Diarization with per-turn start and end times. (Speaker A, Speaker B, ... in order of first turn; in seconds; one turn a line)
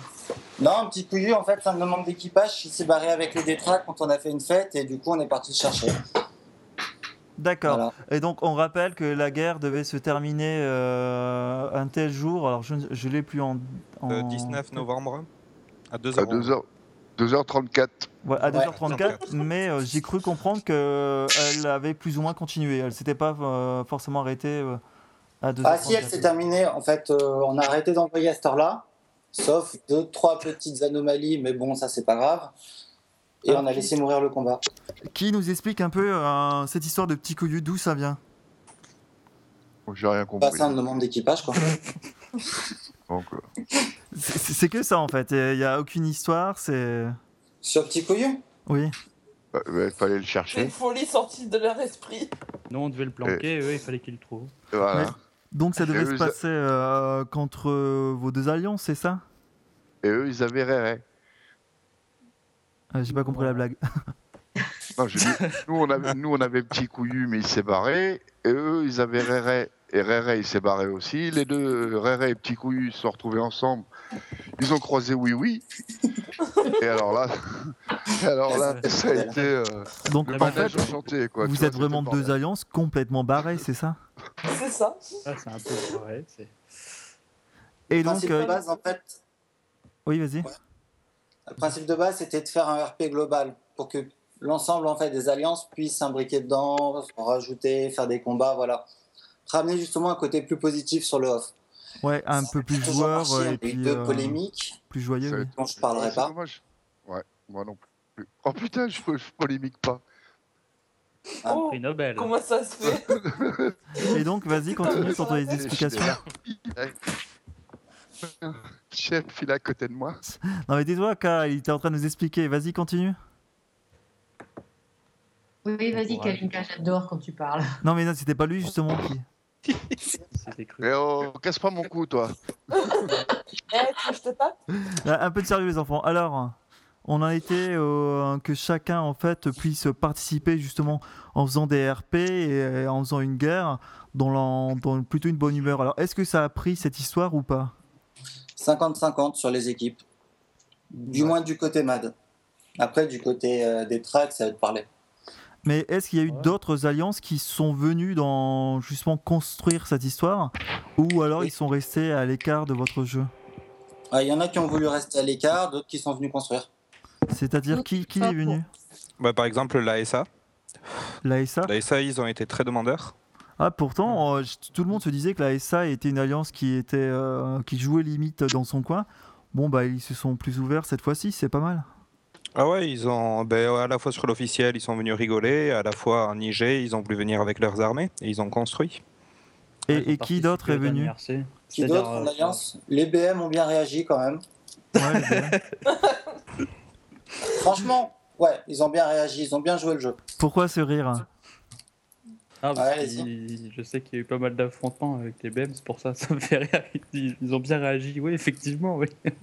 Speaker A: 0.6-6.0
Speaker B: 7.4-14.8
Speaker A: 7.7-7.9
Speaker C: 14.1-15.3
Speaker C: 15.9-16.5
Speaker D: 16.2-16.7
Speaker D: 17.2-18.1
Speaker B: 18.2-24.8
Speaker A: 18.4-18.7
Speaker C: 18.7-19.2
Speaker B: 25.4-26.3
Speaker A: 25.6-32.5
Speaker A: 33.4-34.6
Speaker B: 33.5-33.8
Speaker B: 35.1-38.2
Speaker D: 39.9-40.8
Speaker A: 40.4-41.6
Speaker D: 43.1-43.5
Speaker B: 44.1-47.2
Speaker A: 47.6-48.4
Speaker B: 48.7-48.9
Speaker D: 49.5-50.7
Speaker E: 50.5-52.3
Speaker F: 52.7-54.5
Speaker D: 54.7-55.1
Speaker B: 54.9-59.2
Speaker D: 55.8-56.3
Speaker D: 60.0-61.0
Speaker B: 62.9-63.8
Speaker F: 63.1-63.6
Speaker D: 65.0-73.9
Speaker D: 74.6-75.6
Speaker D: 76.8-82.3
Speaker A: 78.5-79.4
Speaker F: 78.6-78.9
Speaker B: 80.1-84.0
Speaker F: 80.3-80.9
Speaker E: 84.5-85.0
Speaker F: 85.2-86.6
Speaker B: 87.9-88.5
Speaker A: 87.9-89.2
Speaker E: 88.0-88.6
Speaker B: 90.1-90.5
Speaker A: 91.5-98.8
Speaker A: 99.5-101.5
Speaker B: 102.0-105.5
Speaker A: 102.3-104.8
Speaker D: 105.2-110.0
Speaker A: 105.5-106.3
Speaker E: 111.5-113.2
Speaker F: 111.6-112.3
Speaker D: 113.1-113.7
Speaker B: 114.1-116.2
Speaker E: 114.8-115.6
Speaker D: 114.9-117.0
Speaker D: 118.3-120.2
Speaker B: 120.5-123.2
Speaker G: 125.7-127.7
Speaker F: 125.9-126.5
Speaker B: 127.8-129.3
Speaker F: 130.3-130.9
Speaker D: 130.8-132.3
Speaker E: 132.8-134.6
Speaker B: 134.9-147.8
Speaker A: 148.6-150.0
Speaker A: 150.9-152.2
Speaker A: 152.8-154.9
Speaker B: 155.7-163.3
Speaker A: 164.1-166.7
Speaker B: 167.3-168.7
Speaker G: 167.7-168.6
Speaker C: 169.2-170.3
Speaker B: 171.2-171.7
Speaker C: 171.7-173.1
Speaker B: 173.6-181.9
Speaker C: 182.6-189.0
Speaker B: 189.9-191.1
Speaker F: 189.9-192.6
Speaker A: 191.7-194.4
Speaker B: 195.0-195.6
Speaker F: 195.0-195.8
Speaker E: 195.9-196.2
Speaker A: 197.6-200.2
Speaker B: 200.4-201.2
Speaker F: 202.6-209.1
Speaker A: 202.8-203.3